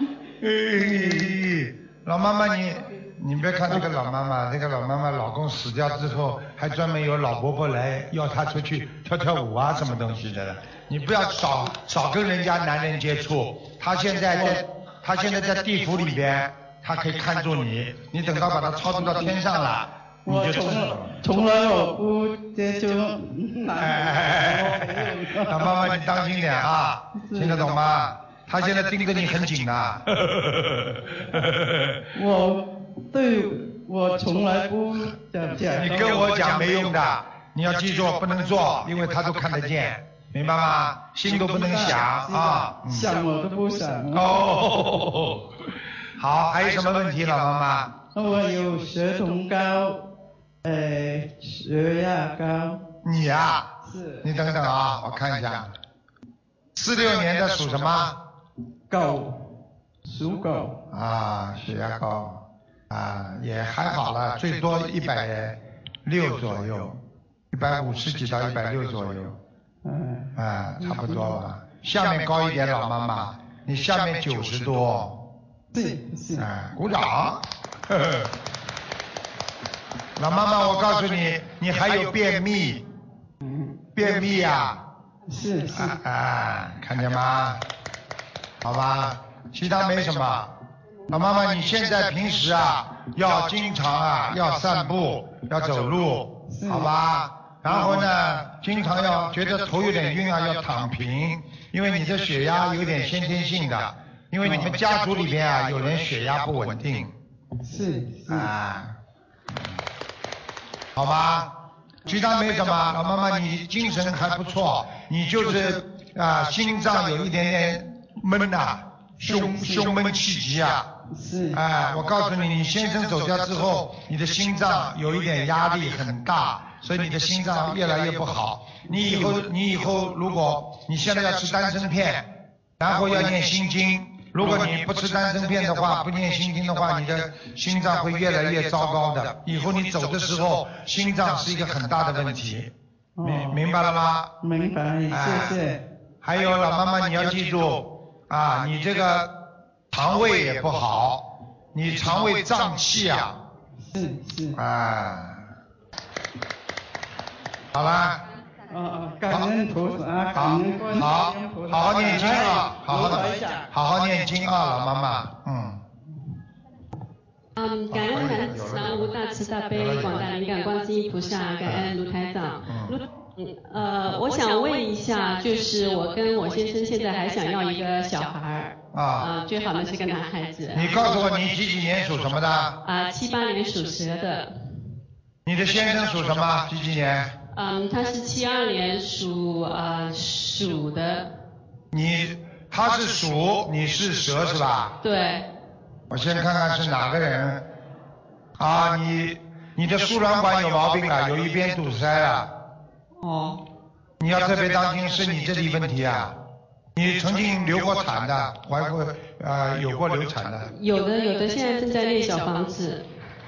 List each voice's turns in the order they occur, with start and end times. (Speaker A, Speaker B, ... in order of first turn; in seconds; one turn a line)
Speaker A: 0.4-21.2
Speaker B: 0.8-1.3
Speaker B: 14.3-14.6
Speaker B: 20.2-25.8
Speaker A: 23.8-32.0
Speaker B: 27.2-27.7
Speaker B: 32.1-36.3
Speaker A: 35.8-43.1
Speaker B: 41.3-44.3
Speaker A: 44.1-45.6
Speaker A: 46.2-47.9
Speaker B: 48.1-50.0
Speaker B: 50.6-52.8
Speaker A: 53.0-53.7
Speaker B: 53.8-54.2
Speaker A: 54.2-55.7
Speaker A: 56.7-58.2
Speaker B: 58.9-59.5
Speaker B: 60.0-60.8
Speaker A: 60.9-69.4
Speaker B: 69.8-70.3
Speaker A: 70.3-75.2
Speaker B: 70.8-71.2
Speaker B: 75.7-76.5
Speaker A: 76.3-78.3
Speaker A: 80.2-82.8
Speaker B: 83.4-83.9
Speaker A: 84.0-84.8
Speaker B: 85.3-86.0
Speaker A: 85.7-87.6
Speaker A: 88.6-90.5
Speaker A: 91.1-107.1
Speaker B: 96.5-96.9
Speaker B: 97.7-98.0
Speaker B: 104.4-104.7
Speaker B: 107.6-108.5
Speaker A: 108.3-109.0
Speaker A: 110.9-111.5
Speaker A: 112.0-120.9
Speaker B: 119.2-119.9
Speaker B: 121.1-121.6
Speaker A: 121.5-144.3
Speaker B: 128.9-129.3
Speaker B: 134.4-134.7
Speaker B: 143.2-143.6
Speaker B: 144.4-145.8
Speaker A: 145.1-145.6
Speaker A: 146.2-149.3
Speaker A: 149.9-153.4
Speaker B: 153.9-154.6
Speaker A: 154.6-155.5
Speaker A: 157.7-158.2
Speaker B: 158.7-163.7
Speaker A: 160.3-165.8
Speaker C: 167.6-181.2
Speaker A: 167.9-169.1
Speaker A: 169.7-170.3
Speaker A: 171.6-171.9
Speaker A: 172.6-173.0
Speaker A: 178.9-179.3
Speaker A: 180.7-182.8
Speaker C: 182.8-184.5
Speaker A: 185.4-187.3
Speaker C: 187.5-191.3
Speaker A: 191.9-195.0
Speaker C: 195.0-195.5
Speaker A: 196.1-197.7
Speaker A: 198.6-202.5
Speaker C: 203.2-203.6
Speaker A: 204.2-206.4
Speaker A: 206.9-210.7
Speaker C: 210.7-213.1